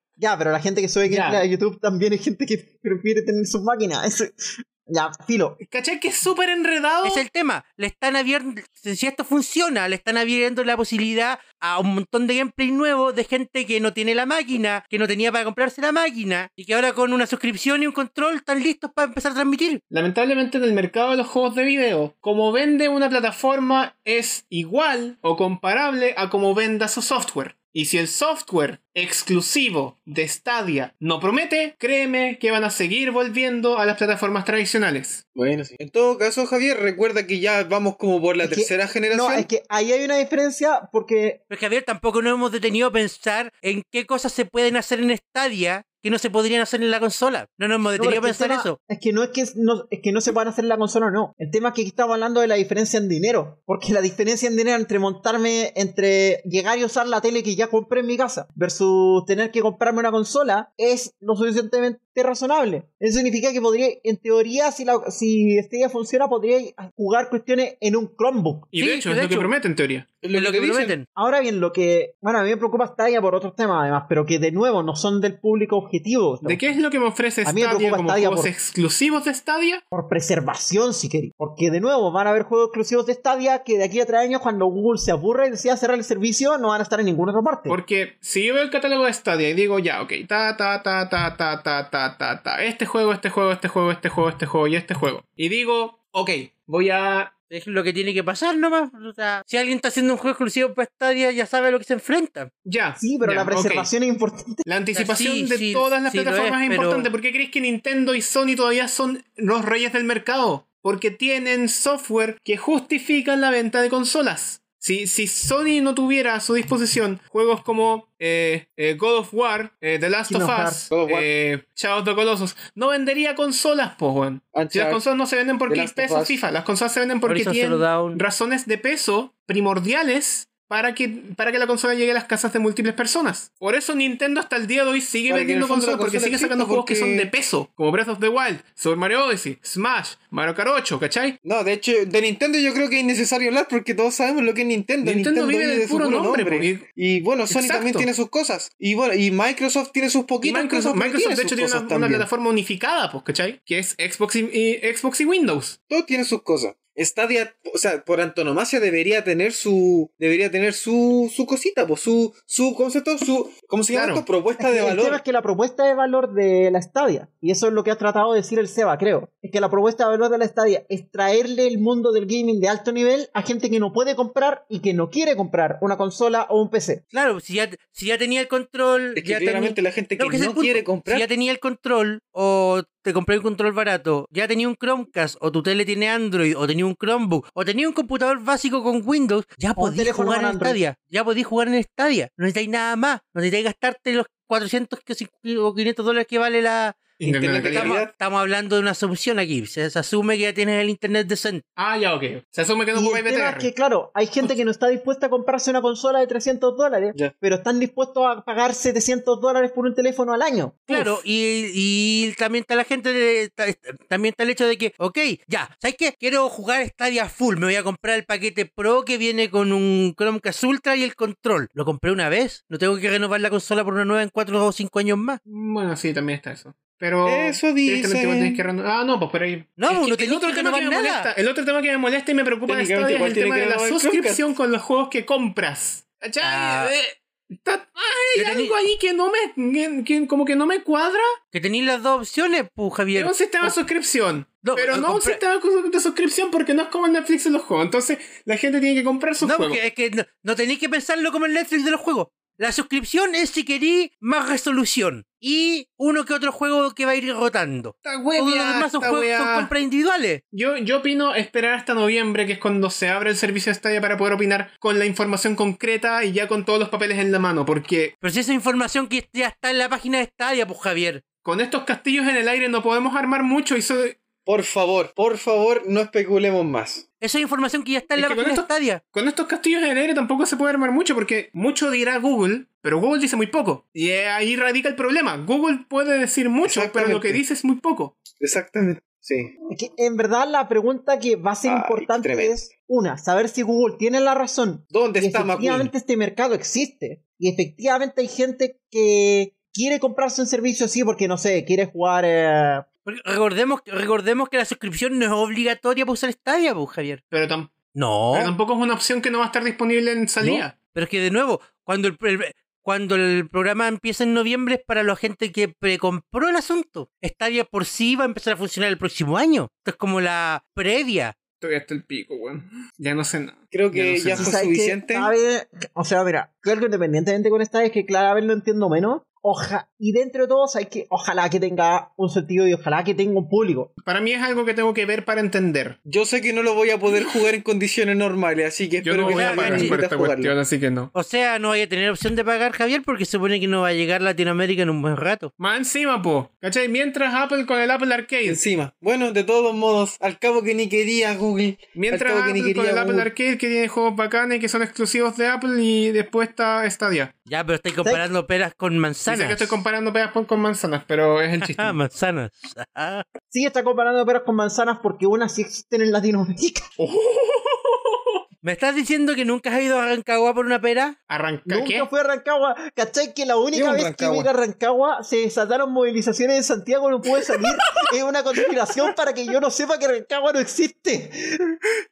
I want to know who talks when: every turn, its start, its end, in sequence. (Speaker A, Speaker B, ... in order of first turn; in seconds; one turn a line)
Speaker A: 0.2-5.6
Speaker B: 1.1-1.4
Speaker B: 5.6-7.2
Speaker C: 7.0-19.8
Speaker B: 19.9-35.2
Speaker D: 35.4-39.5
Speaker A: 38.4-41.4
Speaker C: 41.5-48.8
Speaker A: 48.0-68.7
Speaker B: 68.7-70.1
Speaker C: 68.8-69.5
Speaker D: 70.2-71.0
Speaker C: 70.3-71.1
Speaker A: 71.2-76.6
Speaker B: 76.4-79.8
Speaker A: 77.4-78.5
Speaker A: 79.9-87.8
Speaker B: 87.7-97.3
Speaker C: 97.5-102.5
Speaker B: 102.7-103.9
Speaker A: 103.0-104.7
Speaker B: 104.7-141.4
Speaker C: 105.0-107.1
Speaker A: 120.3-120.8
Speaker D: 120.9-121.3
Speaker D: 124.5-125.0
Speaker D: 125.7-126.4
Speaker C: 127.2-128.2
Speaker D: 135.3-137.3
Speaker D: 141.4-152.3
Speaker B: 145.0-146.8
Speaker B: 147.5-148.1
Speaker B: 150.4-155.8
Speaker D: 155.9-165.2
Speaker B: 163.9-164.2
Speaker A: 164.6-177.0
Speaker C: 177.1-197.0
Speaker D: 179.2-181.3
Speaker A: 189.8-190.8
Speaker B: 197.2-198.0
Speaker D: 197.2-198.1
Speaker C: 197.7-201.6
Speaker B: 201.8-203.7
Speaker A: 202.9-210.9
Speaker C: 210.9-225.4
Speaker D: 210.9-211.2
Speaker B: 225.5-241.3
Speaker D: 227.2-228.6
Speaker C: 229.8-231.3
Speaker D: 232.7-234.5
Speaker C: 236.4-236.9
Speaker C: 238.3-238.8
Speaker C: 241.5-243.8
Speaker B: 243.2-249.8
Speaker C: 244.6-245.4
Speaker C: 249.4-260.4
Speaker B: 258.0-259.7
Speaker B: 260.5-268.1
Speaker C: 268.2-271.2
Speaker B: 271.4-274.2
Speaker D: 274.5-277.0
Speaker C: 277.2-279.0
Speaker B: 278.2-288.2
Speaker D: 286.6-287.4
Speaker D: 288.4-289.5
Speaker A: 289.7-302.9
Speaker D: 291.6-292.7
Speaker D: 294.9-295.9
Speaker C: 303.1-307.2
Speaker B: 307.3-307.7
Speaker C: 307.9-308.5
Speaker B: 308.3-310.8
Speaker C: 310.4-321.4
Speaker B: 321.6-324.6
Speaker D: 323.7-325.3
Speaker A: 324.4-333.9
Speaker B: 334.0-336.0
Speaker D: 336.1-340.6
Speaker B: 339.0-341.1
Speaker C: 339.2-340.0
Speaker C: 341.1-345.5
Speaker B: 345.6-348.6
Speaker D: 348.5-353.3
Speaker B: 351.9-357.3
Speaker C: 357.5-359.8
Speaker B: 359.3-362.0
Speaker C: 361.6-363.3
Speaker A: 363.5-366.9
Speaker B: 367.0-368.2
Speaker C: 368.6-371.2
Speaker B: 371.3-372.1
Speaker A: 371.7-381.8
Speaker D: 373.7-374.5